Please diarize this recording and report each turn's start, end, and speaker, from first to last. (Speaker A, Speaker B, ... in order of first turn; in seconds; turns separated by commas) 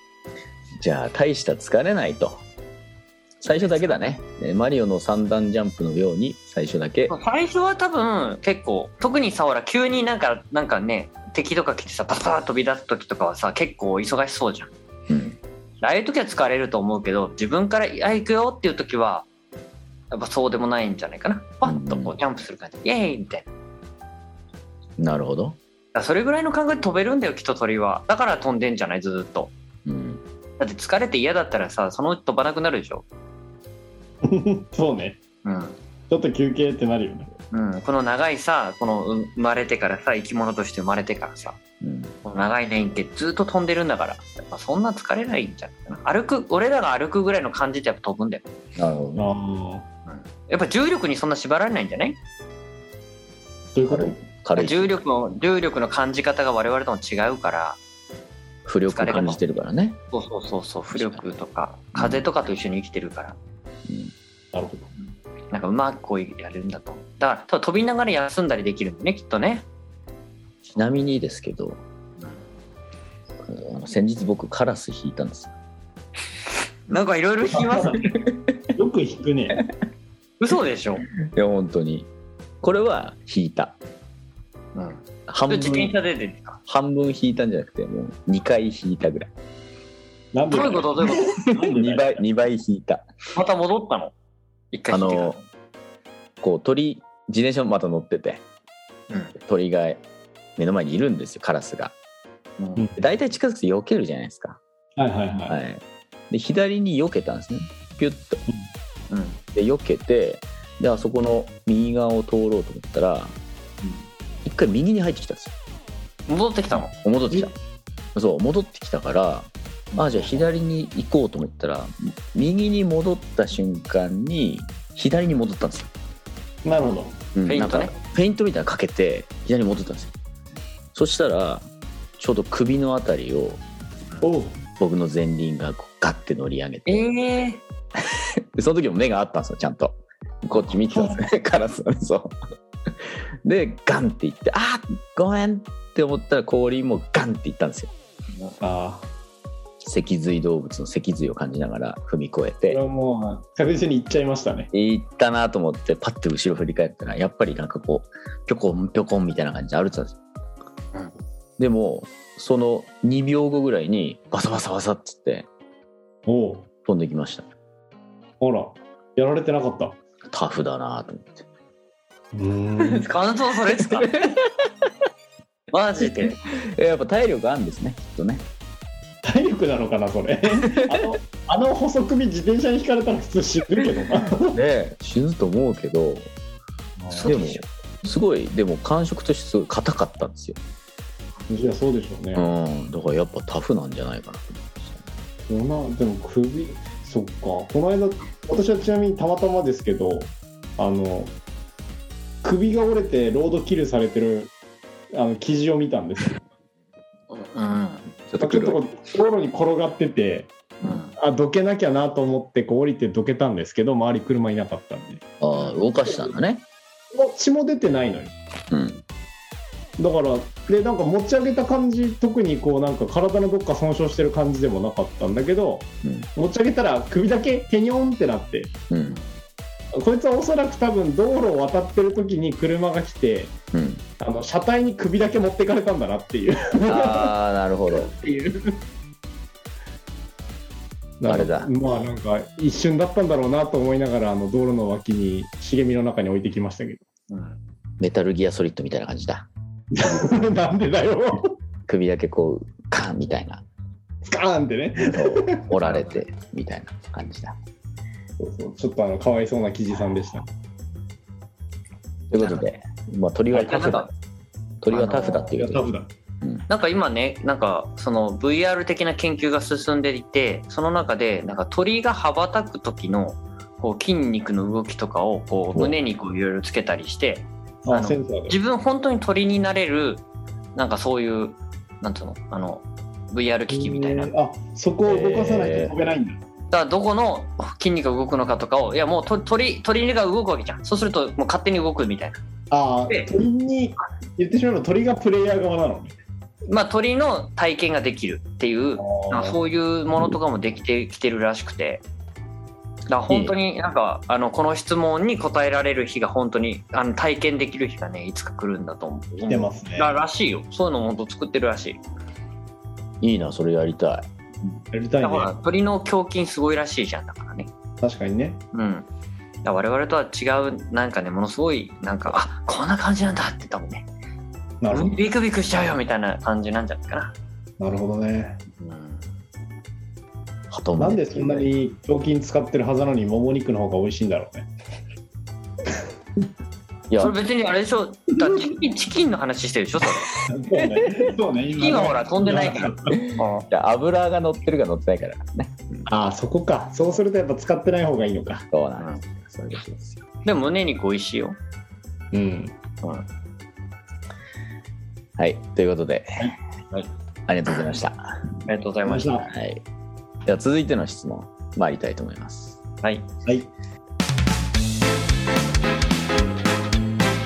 Speaker A: 0.8-2.4, Speaker A: 3.4-7.1, Speaker B: 7.1-14.7, Speaker A: 15.1-15.4, Speaker B: 15.8-19.3, Speaker B: 20.1-23.5, Speaker A: 21.6-22.2, Speaker A: 25.0-25.6, Speaker B: 25.9-29.5, Speaker A: 29.9-30.2, Speaker B: 30.6-33.0, Speaker C: 34.2-35.2, Speaker B: 35.4-35.8, Speaker C: 36.1-37.3, Speaker B: 37.5-41.6, Speaker A: 41.8-42.1, Speaker B: 42.2-48.4, Speaker A: 48.8-49.3, Speaker C: 49.2-49.8, Speaker B: 50.0-52.2, Speaker C: 53.7-54.2, Speaker A: 53.9-54.9, Speaker B: 54.5-57.8, Speaker A: 58.6-60.0, Speaker B: 58.9-59.4, Speaker B: 60.1-63.4, Speaker A: 60.9-61.3, Speaker A: 61.9-62.3, Speaker A: 63.9-64.1, Speaker C: 64.5-64.9, Speaker B: 65.5-69.7, Speaker A: 70.7-71.8, Speaker A: 73.4-75.5, Speaker B: 76.9-78.0, Speaker C: 77.5-78.0, Speaker C: 78.7-79.6, Speaker B: 80.4-81.0, Speaker A: 81.3-82.1, Speaker A: 82.6-83.8, Speaker B: 84.7-86.6, Speaker A: 85.3-86.0, Speaker A: 86.7-89.3, Speaker C: 90.3-92.1, Speaker B: 90.5-92.0, Speaker A: 91.7-93.0, Speaker B: 93.3-94.1, Speaker B: 94.7-95.4, Speaker A: 94.9-95.4, Speaker A: 96.4-98.4, Speaker A: 99.4-100.0, Speaker A: 100.6-101.9, Speaker B: 102.6-102.8, Speaker A: 103.0-104.6, Speaker C: 105.0-105.6, Speaker A: 105.4-108.4, Speaker B: 109.1-109.4, Speaker A: 109.5-113.3, Speaker A: 114.4-115.5, Speaker B: 116.3-116.9, Speaker A: 117.0-117.5, Speaker A: 118.1-125.9, Speaker C: 120.0-120.4, Speaker C: 126.6-127.1, Speaker A: 127.3-130.1, Speaker B: 127.4-127.9, Speaker A: 130.9-133.6, Speaker C: 134.2-134.6, Speaker A: 134.8-137.0, Speaker B: 136.8-137.6, Speaker A: 138.5-142.3, Speaker C: 140.9-141.2, Speaker A: 143.4-147.9, Speaker C: 148.6-149.1, Speaker A: 149.8-152.8, Speaker C: 152.7-154.7, Speaker A: 154.7-160.2, Speaker A: 161.6-165.5, Speaker C: 166.2-166.7, Speaker A: 166.8-167.5, Speaker C: 168.4-170.0, Speaker A: 170.3-171.4, Speaker C: 172.3-173.1, Speaker A: 172.8-173.1, Speaker B: 173.0-174.1, Speaker A: 173.7-174.5, Speaker B: 175.7-176.4, Speaker A: 176.0-178.4, Speaker C: 179.2-184.6, Speaker A: 180.8-181.1, Speaker A: 184.5-186.3, Speaker C: 187.0-187.3, Speaker B: 187.1-187.7, Speaker A: 187.2-190.6, Speaker C: 191.5-192.5, Speaker A: 192.3-195.1, Speaker C: 195.5-201.3, Speaker C: 202.4-204.5, Speaker C: 205.1-206.4, Speaker B: 207.3-208.1, Speaker A: 208.3-208.8, Speaker C: 208.4-210.5, Speaker B: 210.8-211.1, Speaker C: 211.2-215.2, Speaker A: 215.4-216.6, Speaker C: 215.7-216.3, Speaker C: 217.1-218.3, Speaker A: 218.7-219.0, Speaker C: 220.0-228.7, Speaker A: 228.9-229.2, Speaker C: 229.9-233.5, Speaker A: 233.7-234.0, Speaker C: 234.2-237.3, Speaker A: 236.8-238.1, Speaker C: 237.9-238.8, Speaker C: 241.2-247.0, Speaker A: 241.3-241.7, Speaker B: 247.3-247.6, Speaker A: 248.0-249.5, Speaker C: 249.9-251.5, Speaker A: 251.9-253.6, Speaker C: 254.2-255.6, Speaker A: 255.0-257.6, Speaker B: 255.7-256.3, Speaker C: 258.4-260.5, Speaker A: 262.3-264.1, Speaker B: 262.4-262.7, Speaker C: 263.5-263.9, Speaker B: 263.7-264.1, Speaker A: 264.8-265.8, Speaker B: 264.9-265.4, Speaker C: 265.0-266.1, Speaker B: 266.7-280.2, Speaker C: 277.8-278.6, Speaker B: 280.7-284.3, Speaker C: 283.7-286.4, Speaker A: 285.1-285.9, Speaker B: 286.7-292.4, Speaker C: 292.7-296.1, Speaker B: 296.7-302.0, Speaker C: 299.0-299.6, Speaker B: 303.1-312.0, Speaker A: 303.3-303.5, Speaker C: 309.5-310.2, Speaker A: 313.2-314.3, Speaker B: 314.6-317.7, Speaker C: 314.9-315.5, Speaker C: 318.0-318.6, Speaker B: 318.7-319.1, Speaker B: 319.6-324.1, Speaker C: 324.8-325.1, Speaker B: 324.9-327.3, Speaker C: 327.8-328.6, Speaker B: 328.8-329.3, Speaker A: 330.7-331.7, Speaker C: 331.0-334.7, Speaker A: 337.1-337.4, Speaker B: 337.2-340.3, Speaker C: 340.5-343.2, Speaker A: 340.8-341.2, Speaker B: 341.8-343.6, Speaker A: 343.1-345.7, Speaker C: 346.1-348.6, Speaker A: 348.7-350.2, Speaker B: 350.4-351.6, Speaker C: 352.3-352.8, Speaker A: 355.4-356.5, Speaker A: 357.5-358.5, Speaker B: 358.7-359.4, Speaker C: 359.0-359.5, Speaker A: 359.5-359.8, Speaker A: 360.4-362.8